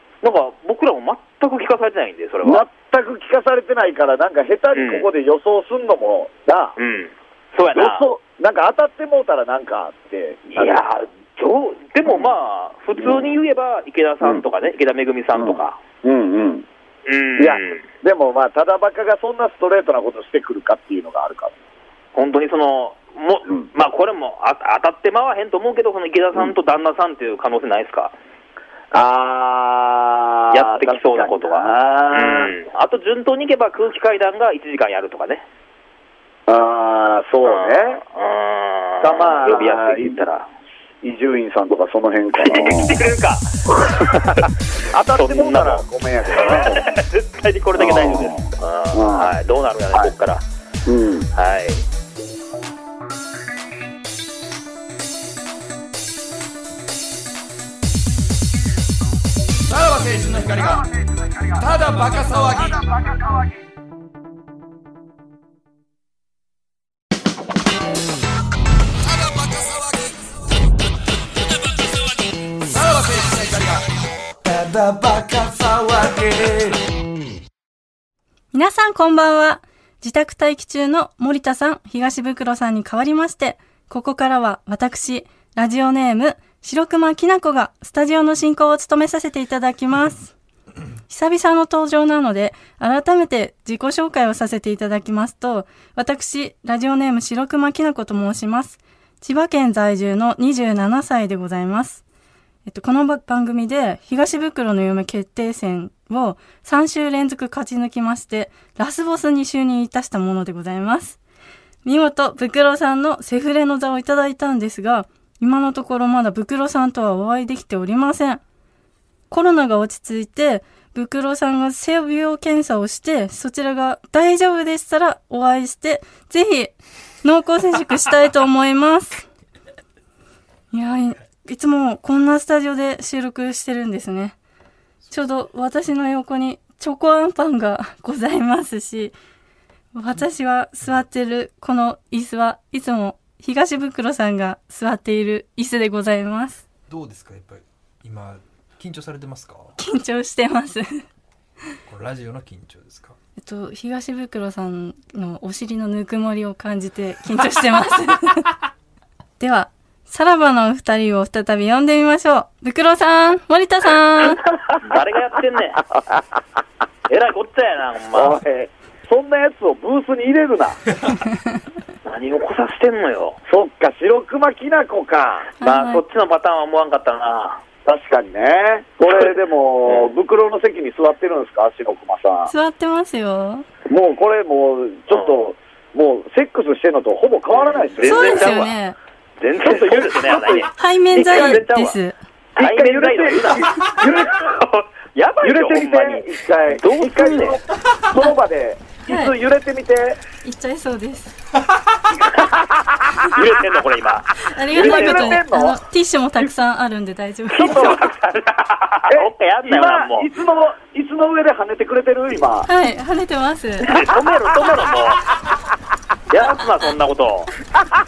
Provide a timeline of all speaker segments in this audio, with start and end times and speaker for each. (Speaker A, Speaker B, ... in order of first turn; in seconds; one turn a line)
Speaker A: 0.2-2.6
Speaker B: 2.4-6.8
Speaker A: 4.7-5.1
Speaker A: 6.8-8.0
Speaker B: 7.7-10.8
Speaker A: 10.5-15.8
Speaker B: 12.1-12.3
Speaker B: 13.0-13.3
Speaker B: 15.3-16.6
Speaker A: 17.1-17.8
Speaker B: 17.4-21.5
Speaker A: 22.1-28.1
Speaker B: 28.9-32.5
Speaker A: 30.5-35.4
Speaker B: 36.5-38.0
Speaker A: 37.4-40.5
Speaker B: 39.0-40.2
Speaker B: 41.0-43.1
Speaker A: 42.4-43.5
Speaker B: 43.8-44.4
Speaker A: 44.2-44.4
Speaker B: 44.9-46.9
Speaker A: 45.1-45.8
Speaker A: 46.4-50.4
Speaker B: 47.8-49.3
Speaker B: 50.9-51.3
Speaker A: 51.3-51.8
Speaker C: 59.7-60.8
Speaker C: 61.6-62.8
Speaker C: 69.0-70.2
Speaker C: 72.7-73.8
Speaker C: 74.4-76.8
Speaker D: 78.5-90.3
Speaker D: 91.1-102.0
Speaker D: 102.7-111.2
Speaker D: 111.8-118.4
Speaker D: 119.3-129.3
Speaker D: 130.7-134.3
Speaker C: 135.0-135.3
Speaker D: 135.1-139.1
Speaker D: 139.9-146.6
Speaker C: 146.9-149.7
Speaker D: 149.8-151.0
Speaker C: 151.9-153.2
Speaker D: 153.4-158.5
Speaker D: 159.4-164.4
Speaker A: 164.8-165.8
Speaker A: 167.1-168.4
Speaker B: 168.1-170.8
Speaker A: 172.0-173.4
Speaker B: 173.5-175.5
Speaker D: 175.6-176.0
Speaker A: 175.6-177.6
Speaker B: 177.8-182.5
Speaker A: 179.1-179.3
Speaker A: 179.8-180.1
Speaker D: 182.5-183.7
Speaker B: 183.9-188.7
Speaker A: 187.5-188.7
Speaker D: 188.0-189.0
Speaker A: 189.4-191.9
Speaker B: 189.6-191.9
Speaker D: 190.8-192.2
Speaker A: 192.6-197.6
Speaker B: 192.6-194.4
Speaker B: 195.4-200.2
Speaker D: 199.1-199.3
Speaker D: 200.4-201.3
Speaker B: 202.4-202.7
Speaker A: 203.3-205.4
Speaker D: 204.5-208.0
Speaker B: 204.7-205.8
Speaker A: 207.5-210.3
Speaker B: 207.6-208.1
Speaker B: 209.1-212.7
Speaker D: 212.7-213.9
Speaker A: 213.8-215.2
Speaker A: 216.3-217.5